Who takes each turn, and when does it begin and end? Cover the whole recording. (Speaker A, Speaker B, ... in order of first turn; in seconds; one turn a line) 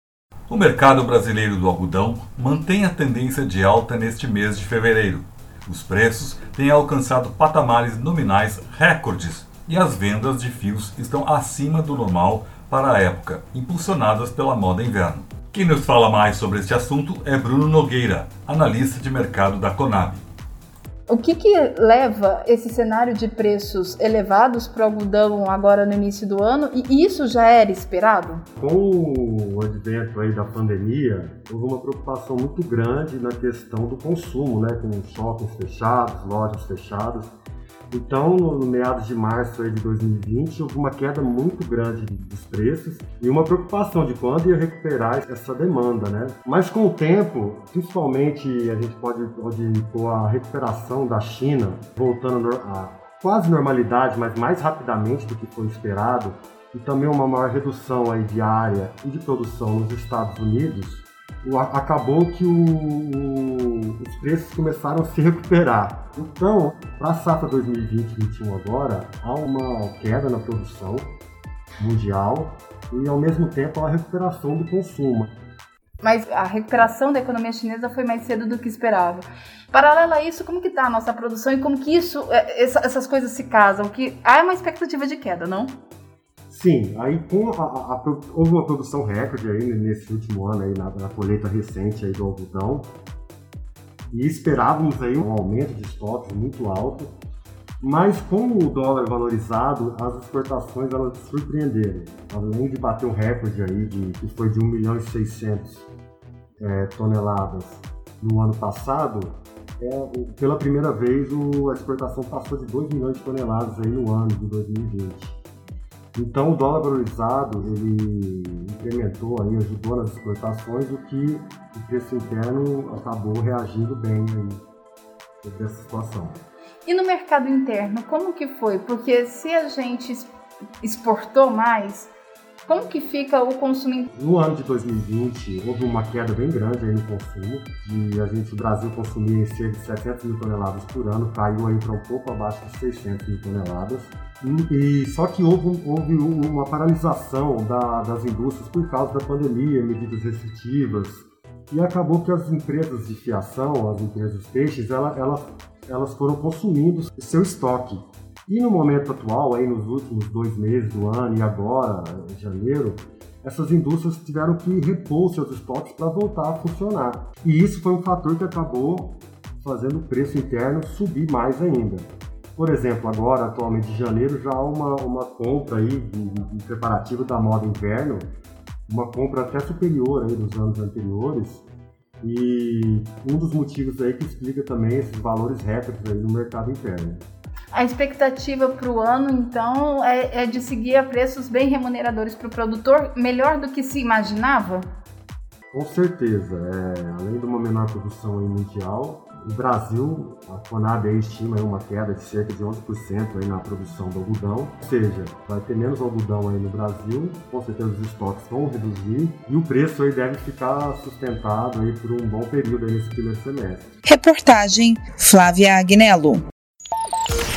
Speaker A: 0.5-20.2
Speaker B: 21.1-28.4
Speaker C: 28.6-37.3
Speaker C: 37.9-71.1
Speaker C: 71.8-75.3
Speaker B: 76.0-85.7
Speaker C: 86.5-92.9
Speaker C: 94.1-97.1
Speaker C: 97.8-105.9
Speaker C: 106.6-115.4
Speaker C: 116.2-124.6
Speaker C: 125.4-126.4
Speaker B: 126.8-130.3
Speaker B: 130.8-132.1
Speaker B: 132.7-134.1
Speaker C: 134.1-178.3
Speaker C: 178.9-181.7
Speaker C: 182.2-187.2
Speaker B: 187.7-194.8
Speaker C: 195.7-213.9
Speaker B: 214.1-216.4